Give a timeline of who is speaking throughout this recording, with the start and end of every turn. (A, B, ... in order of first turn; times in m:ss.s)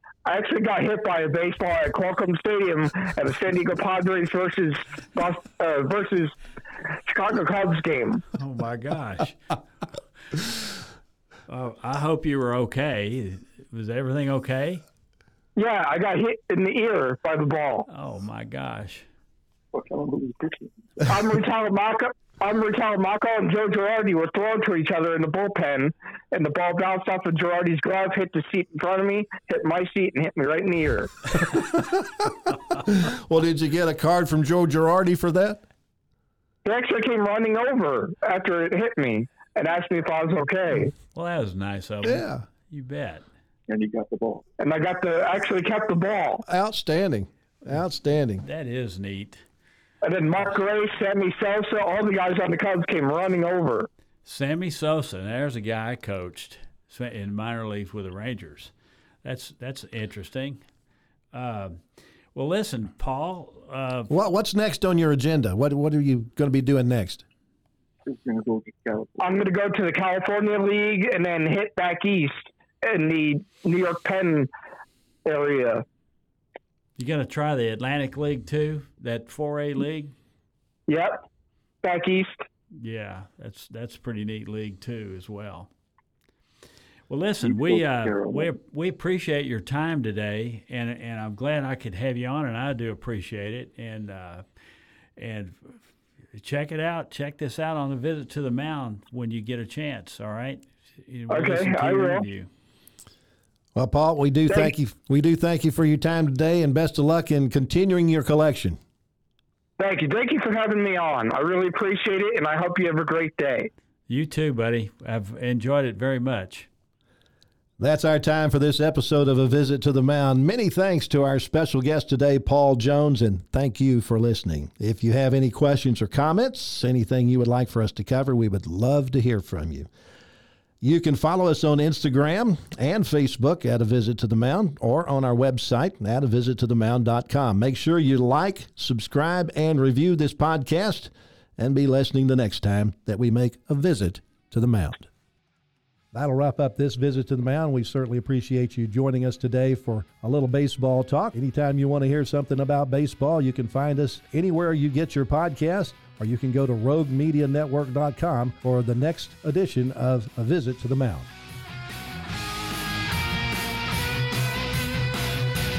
0:00.2-0:06.3 A
0:07.1-0:08.2 A
0:08.4-0:09.6 B
0:10.3-0:10.7 B
0:11.5-0:14.8 B
0:15.6-0:17.9 A
0:17.9-0:19.0 B
0:19.7-0:20.7 C
0:21.0-0:31.2 A
0:32.8-0:35.6 D
0:36.6-0:40.9 A
0:41.1-0:43.2 B
0:42.0-0:42.4 D
0:43.7-0:44.4 C
0:44.6-0:46.4 A
0:46.5-0:48.4 D
0:48.4-0:49.4 B
0:50.0-0:53.9 A
0:54.2-0:58.7 B
0:59.2-1:00.6 B
1:01.3-1:01.8 B
1:02.3-1:04.1 B
1:04.1-1:07.2 D
1:08.0-1:09.4 C
1:09.2-1:14.5 A
1:15.2-1:15.8 A
1:17.0-1:20.1 B
1:20.9-1:21.2 A
1:21.8-1:22.4 A
1:22.7-1:25.7 B
1:27.1-1:34.4 B
1:27.4-1:28.5 C
1:35.2-1:35.8 B
1:36.3-1:42.5 B
1:41.3-1:42.3 A
1:43.8-1:48.8 D
1:49.8-1:53.7 A
1:54.1-1:56.7 B
1:57.8-2:09.9 D
2:10.8-2:25.1 D
2:26.1-2:41.3 D